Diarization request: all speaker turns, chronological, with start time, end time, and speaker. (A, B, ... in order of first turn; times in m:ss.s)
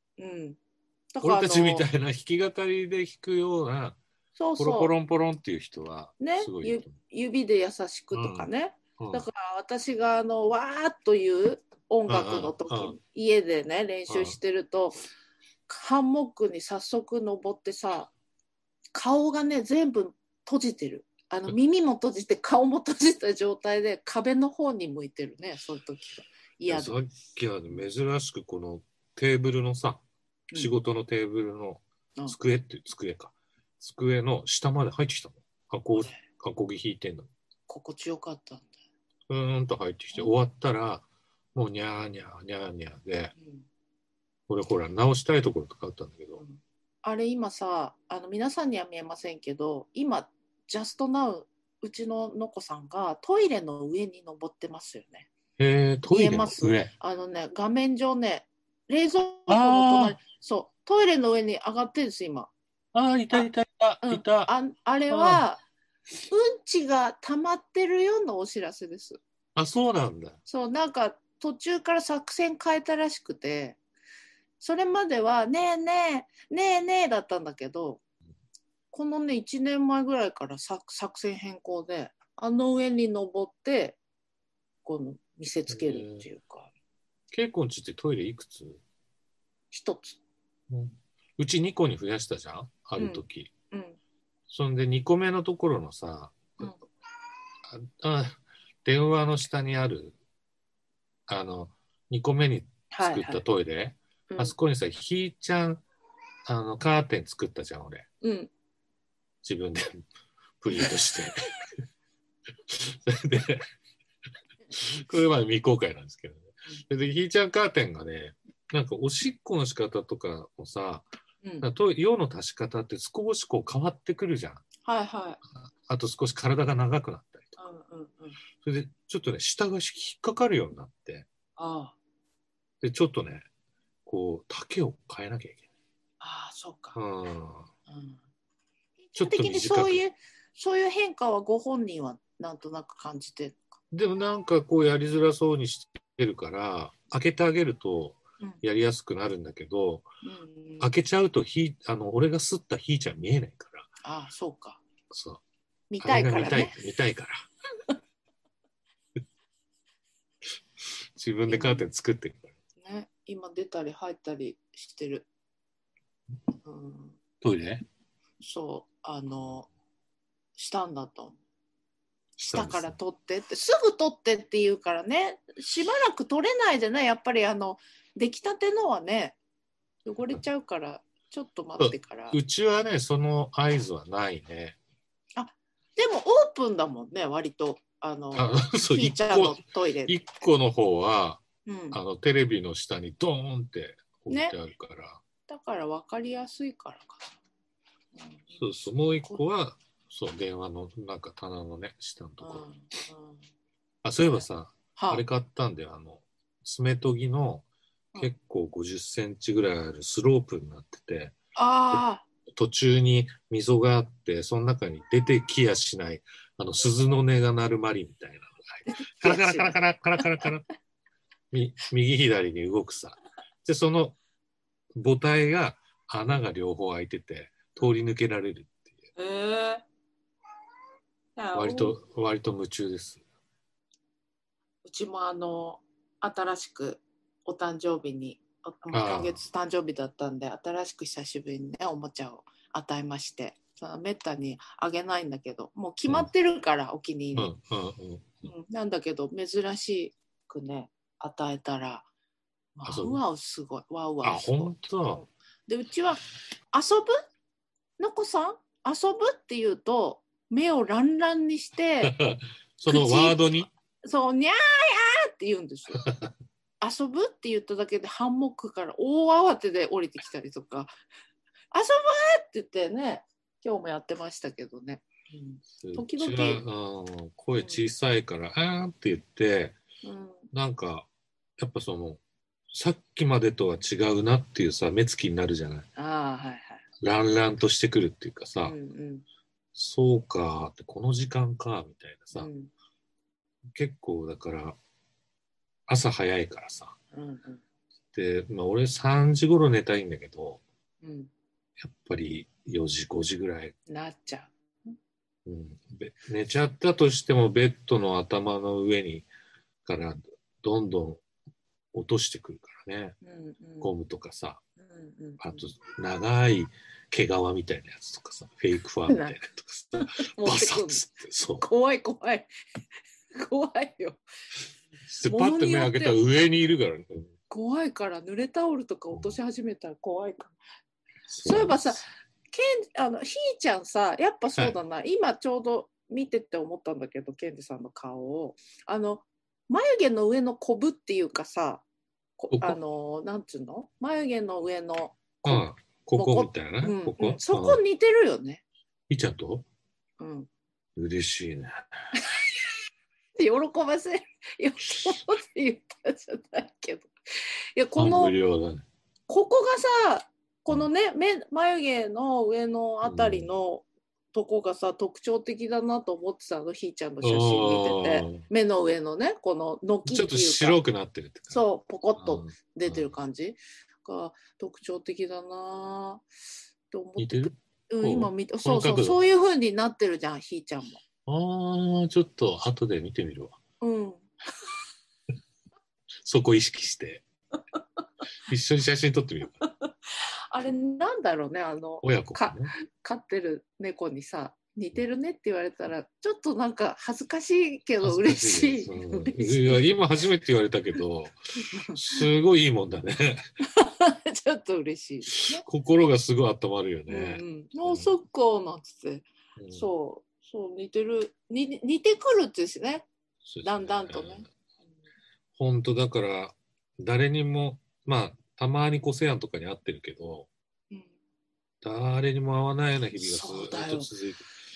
0:00.2-0:00.6 A
0:01.1-0:01.8 A
0:01.2-0:04.0 B
0:04.4-0:04.9 A
0:04.6-0:07.0 B
0:06.2-0:15.0 A
0:08.1-0:09.3 B
0:12.1-0:13.0 B
0:14.1-0:14.4 B
0:15.7-0:18.1 A
0:18.9-0:27.0 A
0:26.7-0:30.0 B
0:30.5-0:37.3 B
0:37.7-0:38.7 A
0:39.3-0:41.0 B
0:41.5-0:43.3 B
0:43.4-0:43.6 A
0:44.5-0:46.4 B
0:46.4-0:55.3 A
0:55.6-0:56.9 B
0:56.1-1:02.5 A
0:59.5-1:00.2 B
1:02.9-1:04.5 B
1:04.0-1:05.6 A
1:05.1-1:05.4 B
1:06.3-1:09.2 A
1:09.6-1:10.4 B
1:10.5-1:13.8 A
1:14.6-1:18.0 A
1:18.9-1:24.0 A
1:24.8-1:26.7 A
1:25.7-1:26.2 B
1:27.3-1:28.8 B
1:29.7-1:30.2 A
1:30.7-1:33.5 B
1:33.0-1:34.0 A
1:34.5-1:36.7 B
1:37.7-1:40.1 B
1:41.3-1:45.8 B
1:42.9-1:43.4 A
1:44.3-1:44.5 A
1:46.4-1:48.0 B
1:48.2-1:48.5 A
1:49.4-1:50.0 B
1:50.6-1:51.6 B
1:52.7-1:53.6 B
1:54.7-2:01.1 B
2:01.4-2:01.7 A
2:01.6-2:04.6 B
2:04.8-2:05.4 A
2:05.6-2:07.6 B
2:07.6-2:08.4 A
2:08.6-2:11.3 B
2:11.6-2:12.0 A
2:12.8-2:13.4 B
2:14.0-2:15.6 B
2:16.2-2:17.0 A
2:16.9-2:17.7 B
2:17.9-2:18.2 A
2:19.0-2:23.7 A
2:19.1-2:20.0 B
2:23.9-2:30.1 B
2:30.2-2:30.9 A
2:30.8-2:33.9 B
2:34.0-2:34.8 A
2:35.1-2:35.4 B
2:35.9-2:36.8 A
2:36.0-2:37.4 B
2:41.2-2:42.6 B
2:41.5-2:41.9 A
2:42.8-2:45.3 A
2:46.6-2:47.2 A
2:47.4-2:47.8 B
2:48.4-2:49.7 A
2:50.6-2:51.4 A
2:52.4-2:53.0 B
2:52.5-2:59.4 A
3:00.0-3:02.4 A
3:01.8-3:04.8 B
3:05.4-3:10.1 A
3:08.3-3:15.2 B
3:11.6-3:12.0 A
3:14.3-3:14.6 A
3:15.5-3:17.4 A
3:18.1-3:19.4 A
3:18.5-3:22.7 B
3:22.4-3:23.4 A
3:24.0-3:27.6 B
3:25.0-3:25.2 A
3:28.2-3:31.4 B
3:31.5-3:32.2 A
3:31.9-3:40.6 B
3:38.8-3:40.4 A
3:41.5-3:44.2 B
3:45.0-3:48.9 B
3:49.2-3:49.8 A
3:51.4-3:52.0 A
3:51.5-3:53.2 B
3:54.8-4:07.5 A
3:58.9-3:59.4 B
4:07.3-4:08.5 B
4:08.4-4:12.1 A
4:12.8-4:17.1 A
4:12.8-4:13.2 B
4:14.2-4:15.2 B
4:18.0-4:22.1 A
4:22.0-4:23.7 B
4:22.9-4:23.4 A
4:24.0-4:26.0 A
4:26.0-4:26.3 B
4:26.8-4:30.9 A
4:31.7-4:36.6 A
4:35.8-4:39.8 B
4:37.6-4:37.9 A
4:40.0-4:40.5 A
4:40.5-4:41.1 B
4:41.6-4:42.2 B
4:42.7-4:45.9 B
4:46.0-4:46.8 A
4:47.0-4:48.8 B
4:48.6-4:49.2 A
4:49.8-4:52.5 B
4:52.3-4:52.7 A
4:53.7-4:54.8 B
4:55.9-4:56.9 B
4:57.1-4:57.6 A
4:58.1-5:00.6 B
5:01.0-5:01.3 A
5:01.8-5:03.8 B
5:03.9-5:05.0 A
5:05.4-5:09.3 B
5:09.8-5:11.2 B
5:11.9-5:13.2 B
5:13.2-5:13.9 A
5:13.8-5:14.6 B
5:14.8-5:15.6 A
5:15.4-5:21.7 B
5:19.1-5:19.4 A
5:20.3-5:21.0 A
5:21.6-5:22.5 A
5:23.3-5:24.2 A
5:25.1-5:27.3 B
5:25.3-5:26.2 A
5:27.5-5:30.5 A
5:31.3-5:32.0 B
5:31.4-5:41.8 A
5:42.4-5:48.6 A
5:42.5-5:42.8 B
5:45.4-5:47.8 B
5:49.1-5:49.6 B
5:50.2-5:50.5 A
5:51.0-5:51.7 B
5:52.1-5:52.4 A
5:53.4-5:58.3 A
5:58.0-5:58.8 B
5:59.3-6:10.8 A
6:03.0-6:03.5 B
6:07.2-6:08.4 B
6:10.1-6:11.6 B
6:11.5-6:16.2 A
6:12.2-6:13.2 B
6:16.9-6:21.0 A
6:17.2-6:19.2 B
6:21.2-6:23.6 B
6:23.8-6:24.3 A
6:26.2-6:27.2 B
6:28.4-6:29.6 B
6:29.6-6:39.9 A
6:32.0-6:32.7 B
6:38.0-6:43.4 B
6:41.7-6:42.2 A
6:43.6-6:45.6 A
6:45.3-6:48.1 B
6:47.1-6:53.0 A
6:49.6-6:49.9 B
6:53.4-6:54.5 B
6:53.6-6:54.4 A
6:55.6-7:00.5 B
7:01.8-7:04.5 B
7:03.2-7:04.1 A